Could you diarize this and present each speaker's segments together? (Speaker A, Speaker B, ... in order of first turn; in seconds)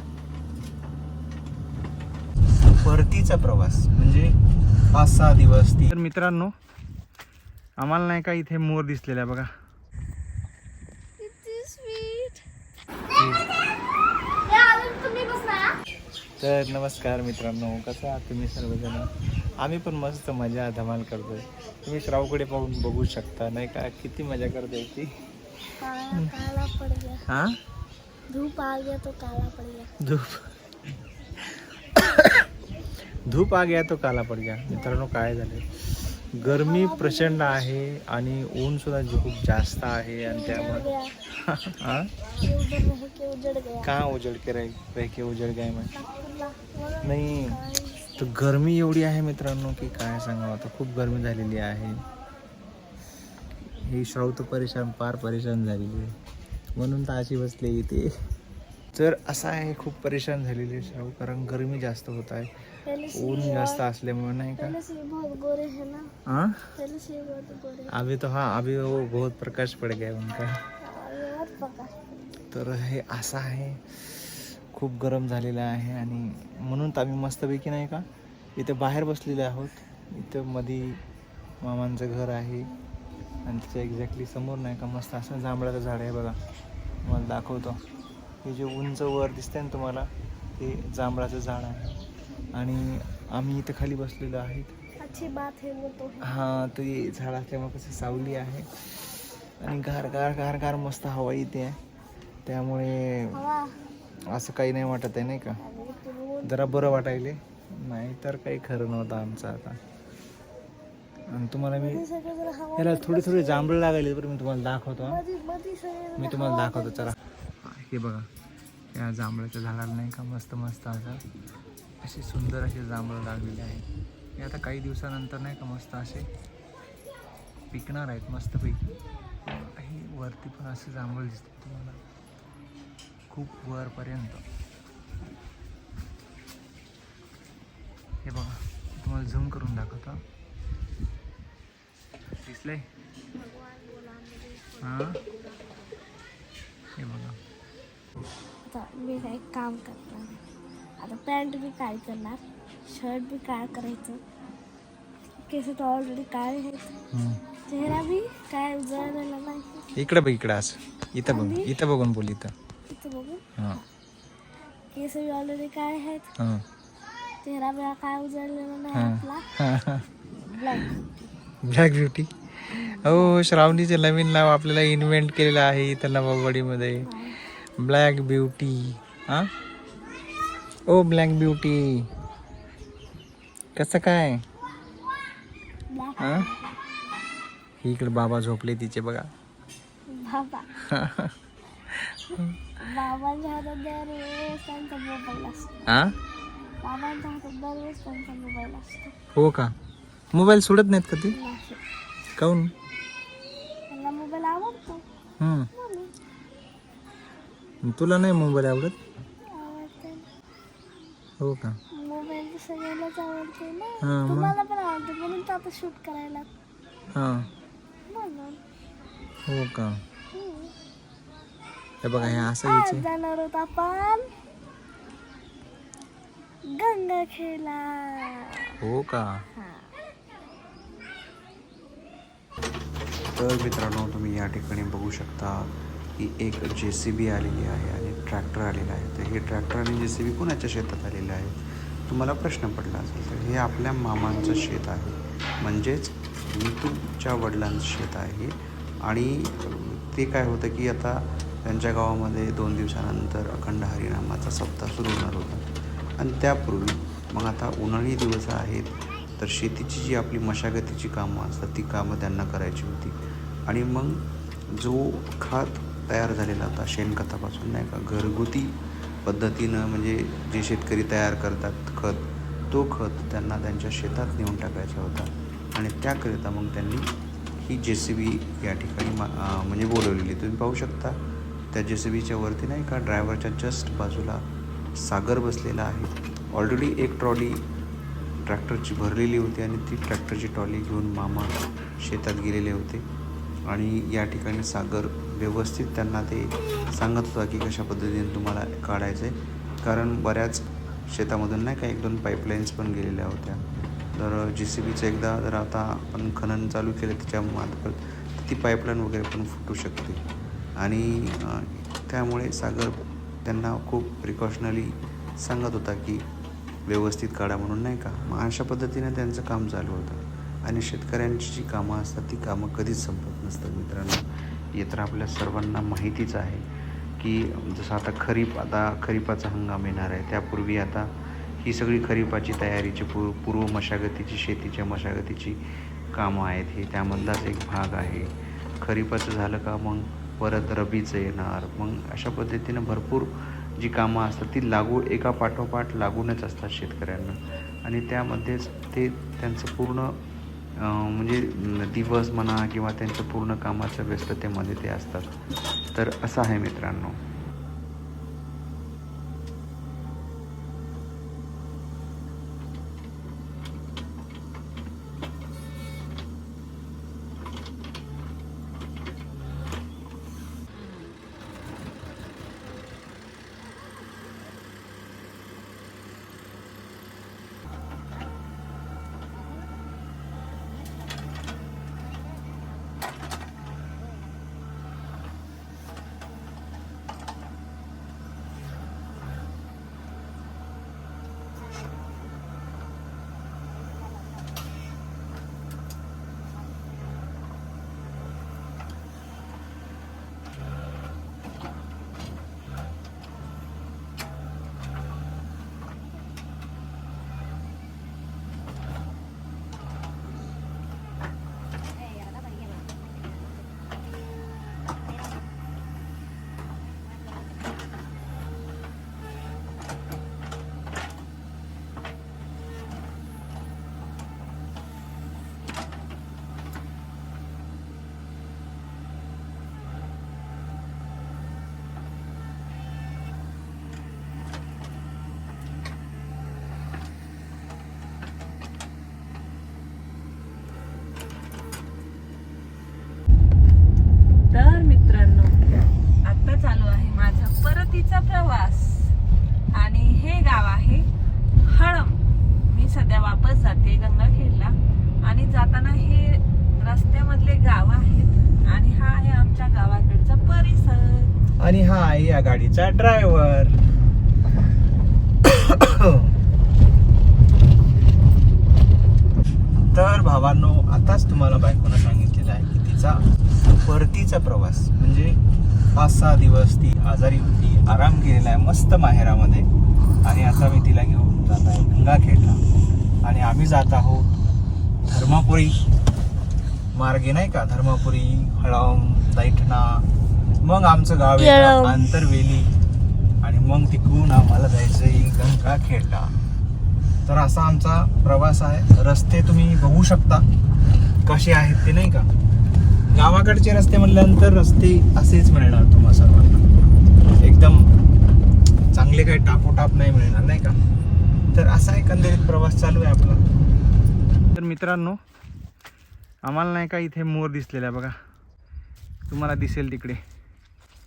Speaker A: 2.8-4.4, 4.9-6.5, 7.8-9.5, 13.1-13.4, 16.4-19.1, 19.6-25.1, 27.3-27.6, 30.0-30.5, 31.4-32.5, 33.3-40.9, 41.4-42.1, 43.8-45.9, 47.0-47.6, 48.2-52.0, 53.8-56.1, 56.8-58.1, 58.9-64.8, 66.3-66.7, 67.9-70.6, 72.5-81.0, 81.6-82.7, 83.4-86.4, 87.0-87.8, 88.4-92.0, 92.5-94.7, 96.2-101.8, 102.5-103.4, 104.3-105.6, 106.4-109.8, 111.3-112.0, 112.8-115.2, 116.2-118.3, 118.9-121.2, 122.0-123.8, 124.4-126.3, 127.7-132.0, 133.3-134.4, 138.2-140.2, 142.4-142.8, 144.8-145.2, 147.0-147.4, 157.1-157.4, 159.9-162.5, 166.4-166.6, 168.9-170.1, 171.6-179.5, 180.9-182.1, 183.8-184.4, 186.2-186.5, 187.8-189.3, 190.9-191.3, 191.9-192.6, 195.9-196.1, 199.3-199.7, 200.3-201.3, 202.4-202.7, 205.4-205.7, 207.8-208.9, 211.4-211.8, 214.0-214.6, 217.1-217.5, 219.5-220.0, 222.0-223.1, 228.8-229.4, 461.6-463.8, 465.4-466.4, 469.8-475.4, 475.9-479.7, 480.2-482.6, 483.2-484.3, 485.1-485.8, 486.9-490.1, 490.6-492.7, 493.4-496.3, 497.2-500.4, 501.2-502.3, 503.1-506.6, 507.4-507.9, 508.9-510.8, 511.5-513.4, 514.5-515.2, 516.4-518.1, 519.3-520.2
Speaker B: 11.2-12.4, 14.4-15.7, 25.8-27.2, 28.3-29.9, 34.7-35.0, 36.5-37.6, 40.2-41.2, 42.4-43.9, 45.9-48.1, 62.8-63.8, 64.6-66.1, 66.8-67.9, 70.8-71.9, 95.0-96.3, 103.3-103.8, 105.6-106.7, 111.8-113.7, 115.0-117.1, 143.3-145.9, 148.7-150.4, 151.0-154.2, 155.5-156.9, 157.7-159.9, 161.3-161.7, 162.9-163.4, 164.9-166.3, 167.4-169.5, 170.5-170.9, 177.0-177.4, 185.9-186.8, 190.1-190.8, 192.8-195.8, 196.8-199.1, 201.3-201.8, 203.9-205.0, 205.7-206.1, 209.4-210.3, 211.9-216.5, 218.1-218.6, 220.3-220.7, 222.2-224.3, 226.7-228.7, 229.6-229.9, 491.4-492.0
Speaker C: 233.3-255.7, 256.2-277.1, 277.6-281.2, 281.7-284.4, 285.0-287.6, 288.4-293.0, 293.7-303.6, 304.1-310.2, 310.8-316.2, 316.9-324.2, 324.8-326.6, 327.2-350.2, 350.8-355.4, 355.9-357.2
Speaker D: 444.5-445.6, 446.2-449.1, 449.7-451.1, 451.6-461.3